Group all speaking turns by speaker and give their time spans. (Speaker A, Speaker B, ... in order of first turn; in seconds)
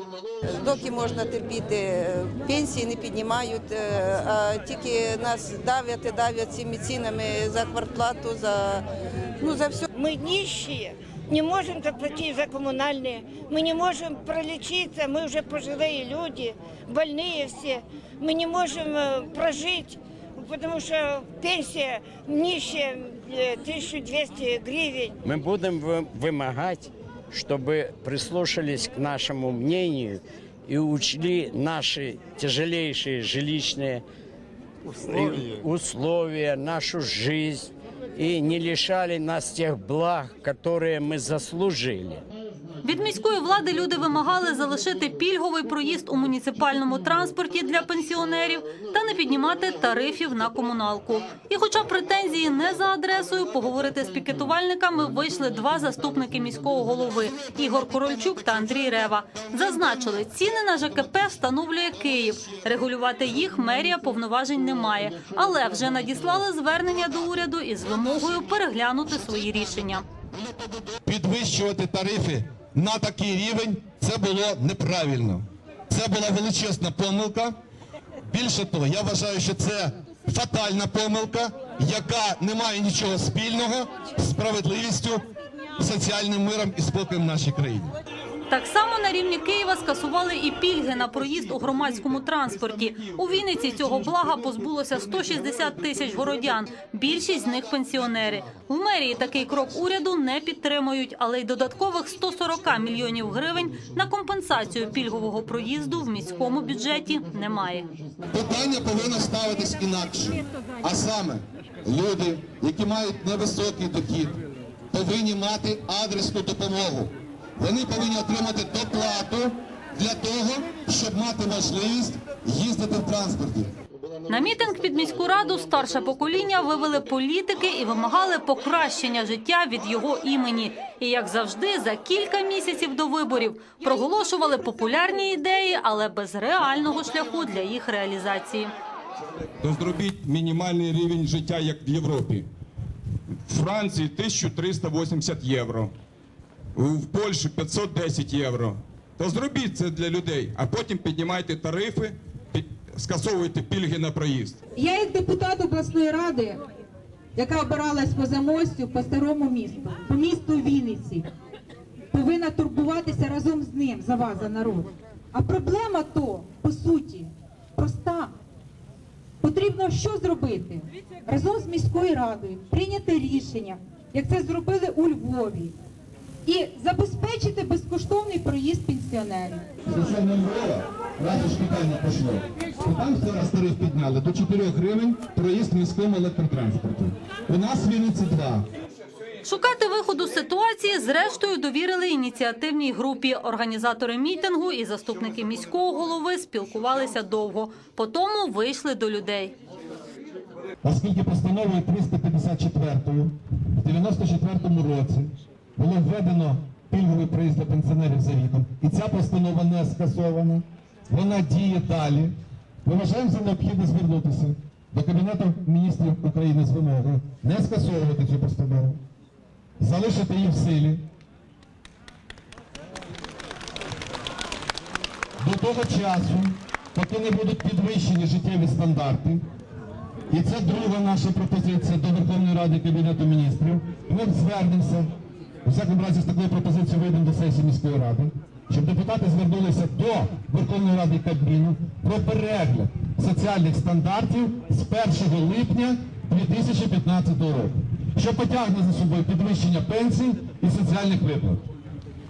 Speaker A: 0.4-8.8, 9.4-9.9
Speaker B: 9.9-25.1
Speaker C: 25.2-34.0, 35.0-42.2
Speaker D: 42.8-70.0, 88.5-107.9, 124.3-138.7, 189.4-199.5
Speaker E: 70.3-77.5, 78.3-85.2, 85.8-87.9, 108.3-114.4, 114.9-123.7, 179.8-188.7, 200.8-219.0, 219.8-221.0, 225.4-229.4, 230.3-235.1, 235.6-251.7
Speaker F: 139.6-142.4, 143.5-145.9, 146.8-154.6
Speaker G: 154.8-156.6, 157.3-161.2, 162.1-168.3, 169.4-175.7, 176.4-179.7